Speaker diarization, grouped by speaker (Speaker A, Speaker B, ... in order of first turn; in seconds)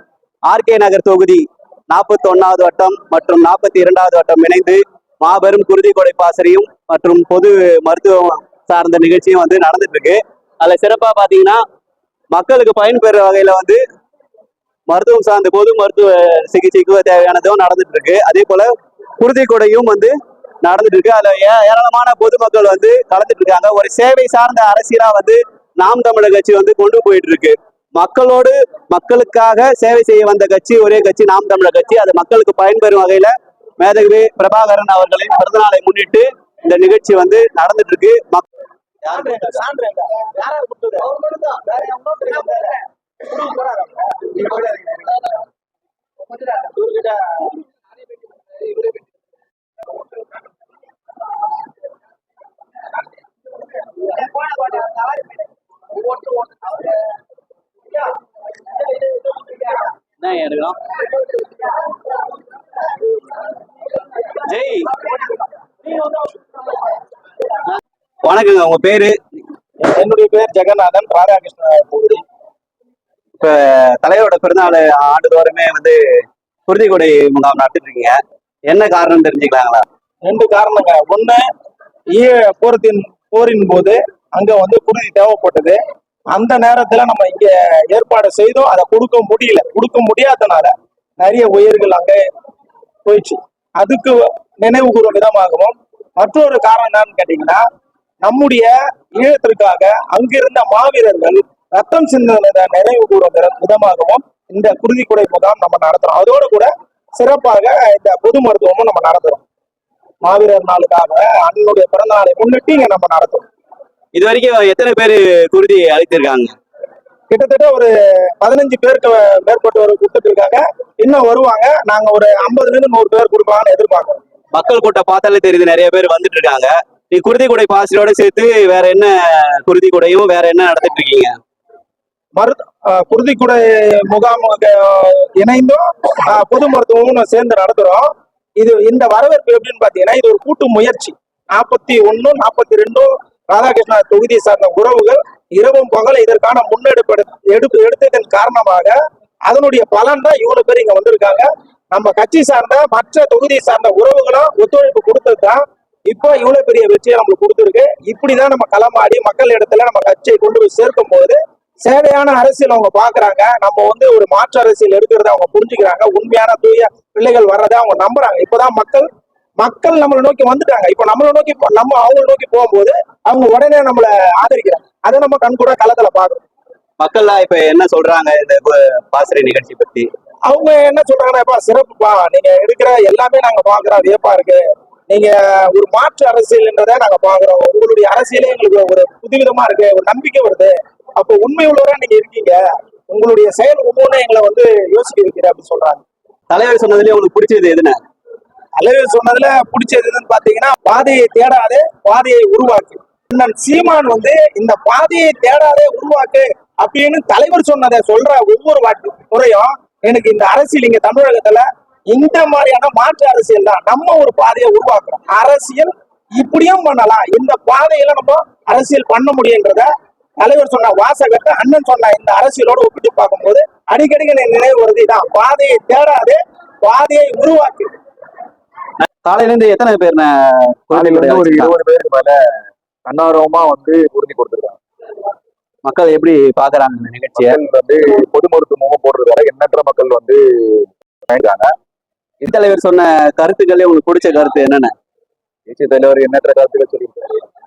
Speaker A: 0.5-11.6, 12.3-13.8, 14.9-38.5, 60.2-60.8, 64.4-64.9, 68.2-69.2, 73.4-79.8, 114.1-116.5, 124.5-131.4, 177.0-180.1, 196.5-198.0, 229.0-231.7, 235.8-237.6, 242.5-244.9
Speaker B: 39.1-45.3, 46.3-47.6, 54.1-55.1, 56.1-56.5, 65.9-66.3, 69.8-72.2, 80.2-81.4, 82.1-85.8, 86.3-92.2, 93.0-97.6, 98.2-109.4, 110.2-113.5, 117.3-124.2, 132.3-148.9, 149.4-169.1, 169.6-176.4, 180.5-192.6, 193.1-196.0, 198.8-219.9, 220.4-227.9
Speaker C: 230.9-232.4, 233.1-234.8, 237.4-241.7, 245.7-247.4